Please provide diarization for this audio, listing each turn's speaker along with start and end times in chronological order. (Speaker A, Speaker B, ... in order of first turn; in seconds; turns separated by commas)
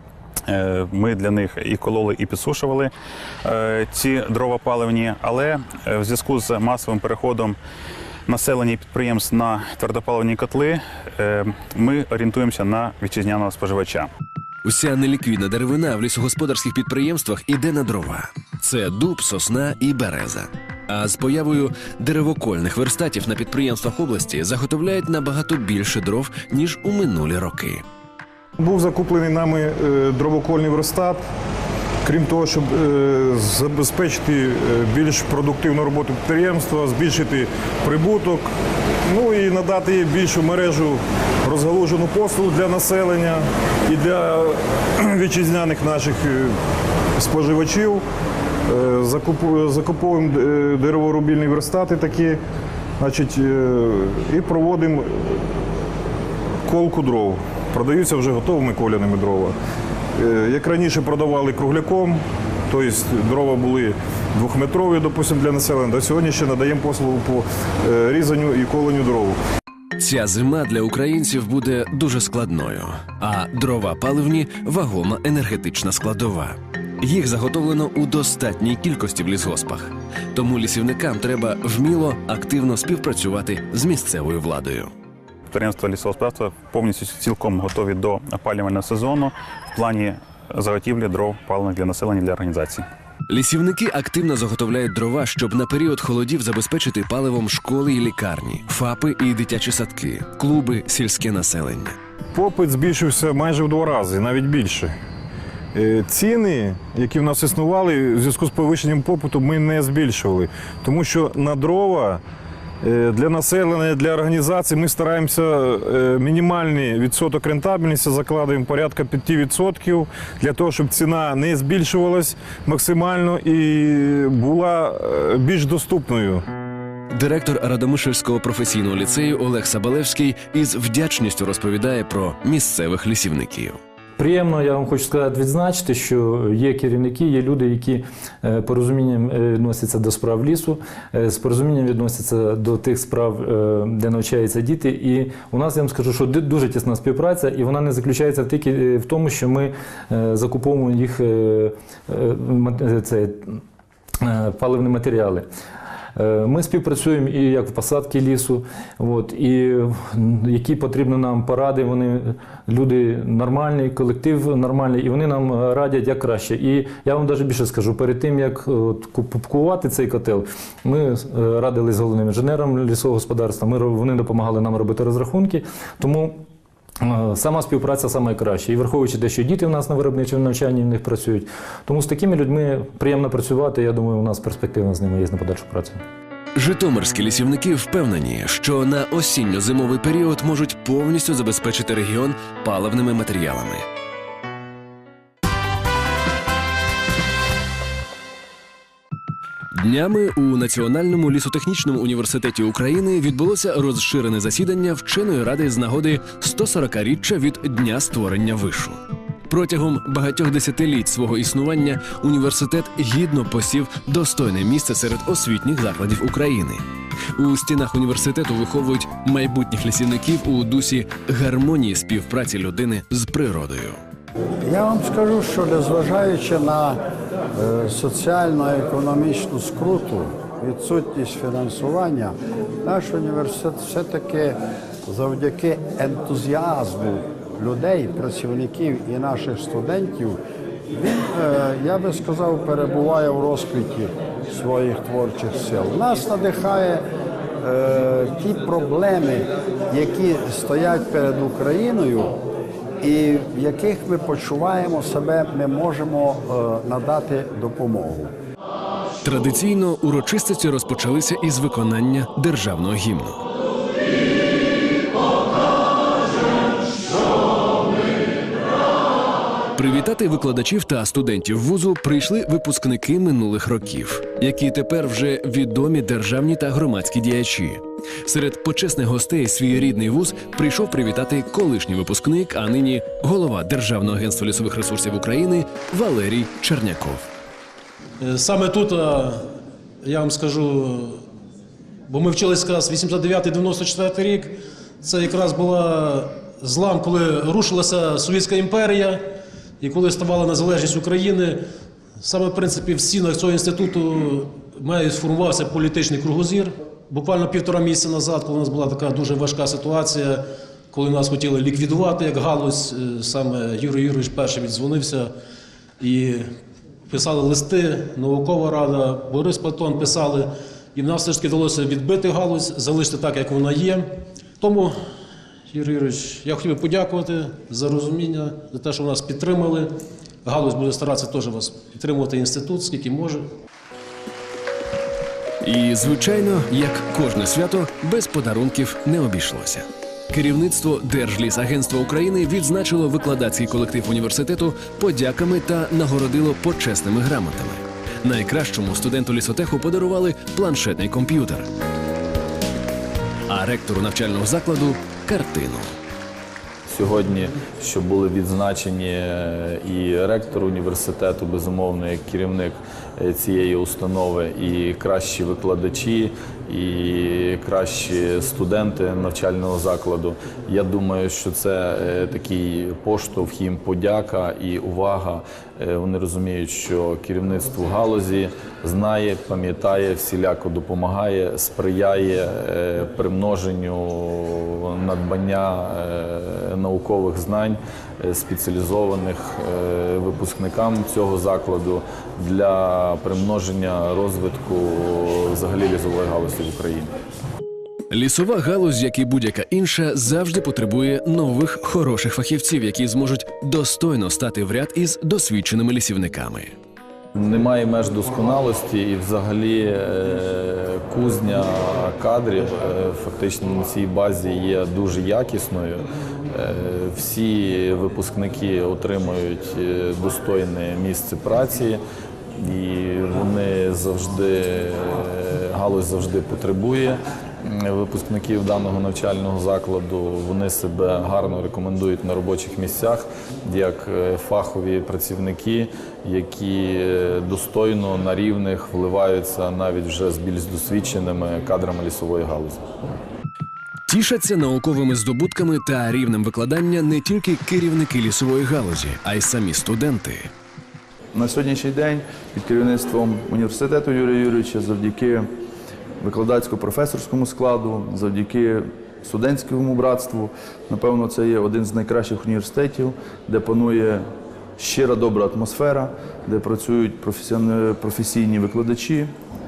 Speaker A: 0.5-2.9, Speaker A: 3.5-7.6, Speaker A: 8.3-14.1, Speaker B: 14.7-27.8, Speaker C: 28.6-31.2, Speaker C: 32.0-38.5, Speaker C: 39.1-46.5, Speaker C: 47.2-48.0, Speaker C: 48.7-52.4, Speaker C: 53.0-55.4, Speaker C: 56.7-59.5, Speaker C: 60.2-69.4, Speaker B: 70.0-84.9, Speaker A: 85.5-92.8, Speaker B: 93.3-102.0, Speaker C: 102.3-105.0, Speaker C: 105.7-112.2, Speaker C: 112.8-126.4, Speaker B: 127.1-133.8, Speaker D: 134.2-153.6, Speaker D: 154.2-155.4, Speaker D: 156.2-176.4, Speaker D: 177.0-186.0, Speaker B: 186.6-193.8, Speaker B: 199.7-209.0, Speaker B: 209.5-216.8, Speaker B: 217.4-224.0, Speaker E: 224.6-247.1, Speaker E: 247.6-252.5, Speaker E: 253.0-258.4, Speaker B: 259.2-263.4, Speaker B: 269.8-287.3, Speaker F: 288.2-289.4, Speaker F: 290.0-291.2, Speaker F: 292.1-299.2, Speaker F: 299.8-301.6, Speaker F: 302.2-315.3, Speaker F: 316.0-316.4, Speaker F: 317.1-324.1, Speaker F: 324.6-324.9, Speaker F: 325.7-329.9, Speaker F: 330.4-333.4, Speaker B: 335.6-351.7, Speaker B: 353.5-355.9, Speaker G: 356.9-397.1, Speaker B: 398.1-406.7, Speaker G: 407.4-422.0, Speaker G: 422.6-442.8, Speaker B: 444.1-450.5, Speaker H: 451.4-455.5, Speaker H: 456.2-464.3, Speaker H: 464.8-469.3